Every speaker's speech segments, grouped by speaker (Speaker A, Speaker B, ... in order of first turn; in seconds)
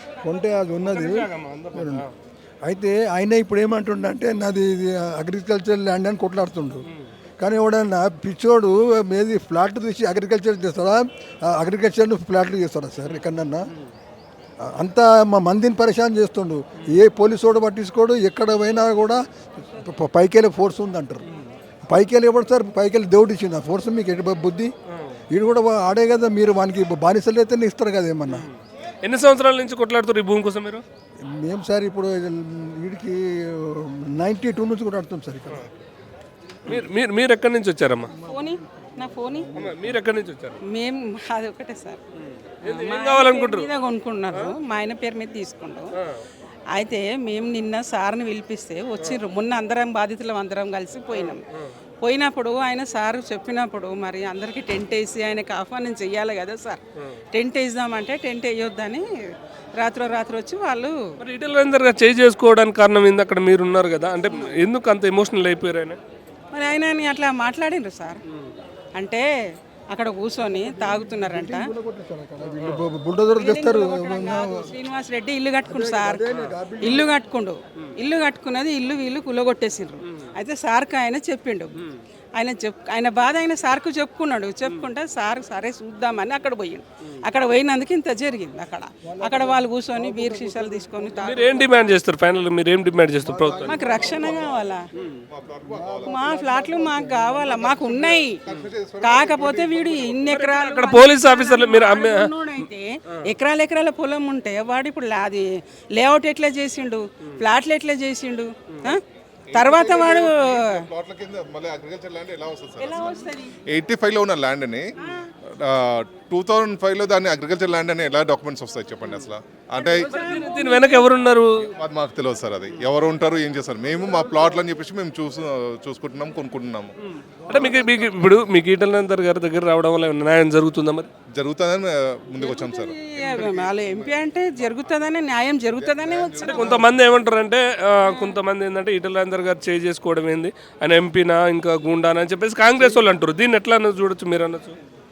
Speaker A: 0.2-2.1, 2.6-6.9, 7.4-13.6, 14.7-21.2, 21.9-24.7, 25.3-28.5, 31.2-35.7, 38.1-40.0, 70.5-74.7, 75.7-77.1, 89.0-91.4, 93.2-94.6, 95.7-98.2, 127.4-128.3
Speaker B: 0.8-2.1, 6.8-7.1, 21.2-21.5, 24.9-25.2, 28.3-30.8, 36.7-38.1, 39.5-40.6, 42.2-43.7, 46.0-46.2, 51.1-51.7, 61.2-66.0, 72.5-72.9, 91.2-94.0, 95.0-95.2, 100.3-102.3, 108.7-109.0, 119.0-119.3, 120.1-121.5, 127.2-131.1, 136.4-144.8
Speaker C: 38.3-39.5, 40.7-42.0, 42.6-45.9, 46.7-51.4, 52.0-56.8, 57.3-59.0, 59.8-60.9, 64.2-64.5, 66.5-68.2, 69.0-69.3, 69.9-71.7, 73.4-76.3, 76.8-81.7, 82.4-91.9, 93.7-94.9, 96.1-98.4, 99.0-109.0, 109.5-110.8, 112.8-113.6, 119.8-121.1, 132.4-136.9, 138.0-138.4
Speaker D: 94.0-94.7, 95.3-96.2, 98.4-100.3, 109.5-114.9, 115.5-120.1, 121.8-127.0, 131.3-133.9, 135.7-136.9